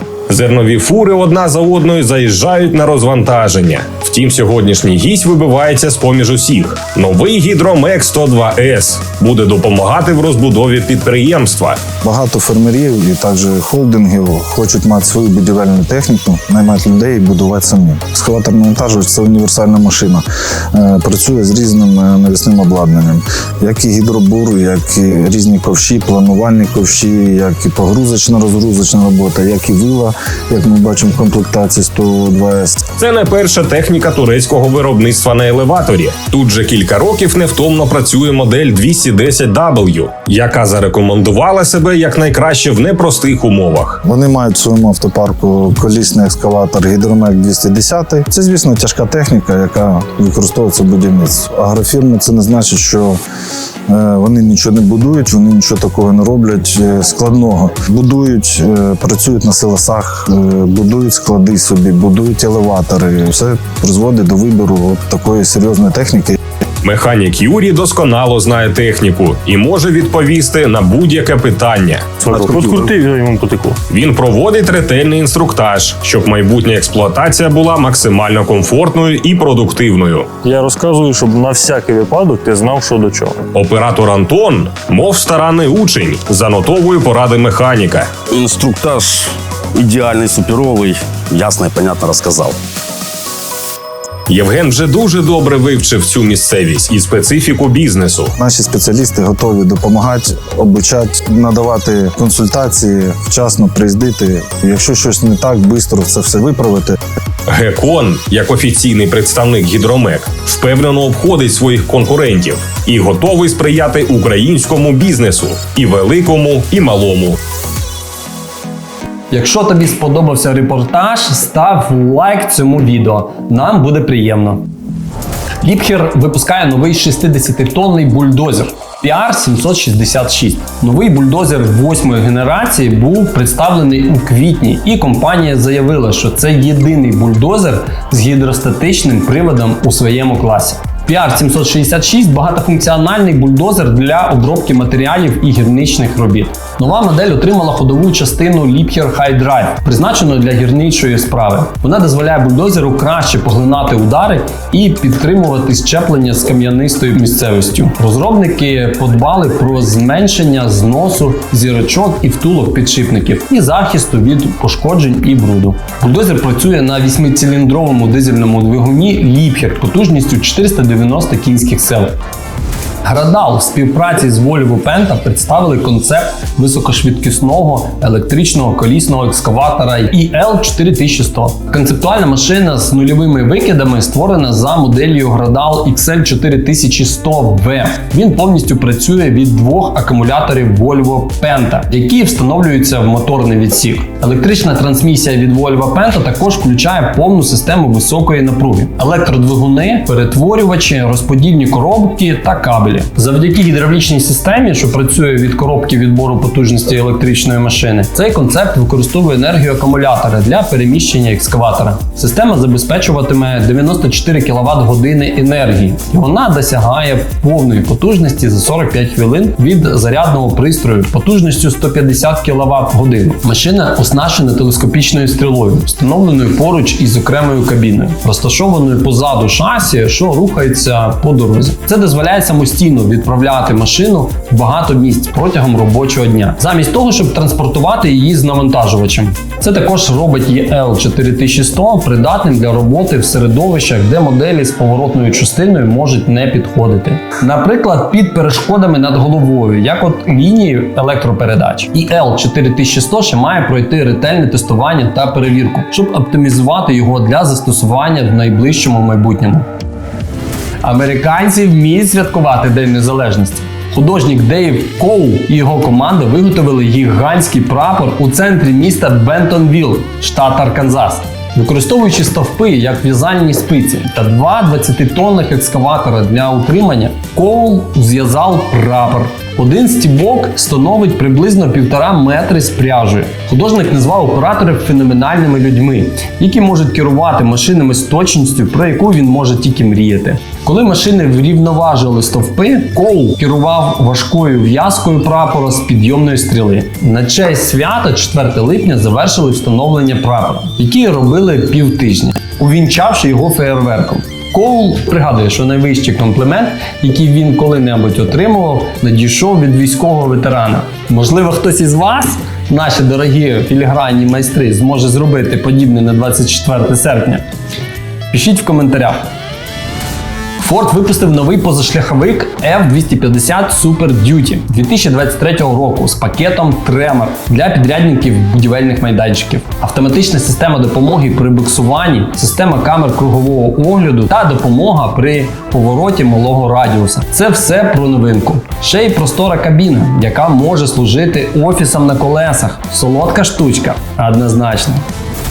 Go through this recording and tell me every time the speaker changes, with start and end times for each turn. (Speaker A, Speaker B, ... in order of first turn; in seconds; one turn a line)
Speaker A: 0.3-11.8
Speaker B: 12.0-32.8
Speaker A: 33.0-44.0
Speaker B: 44.0-53.2
Speaker B: 53.9-66.3
Speaker A: 66.8-72.2
Speaker C: 72.2-73.8
Speaker A: 73.9-80.3
Speaker C: 80.4-83.5
Speaker A: 83.5-88.1
Speaker D: 88.3-92.6
Speaker A: 94.3-98.3
Speaker B: 98.4-107.0
Speaker A: 107.5-117.4
Speaker E: 119.3-124.6
Speaker E: 125.6-172.2
Speaker E: 173.0-259.7
Speaker E: 260.8-317.4
Speaker E: 318.3-319.3
Speaker E: 320.6-345.0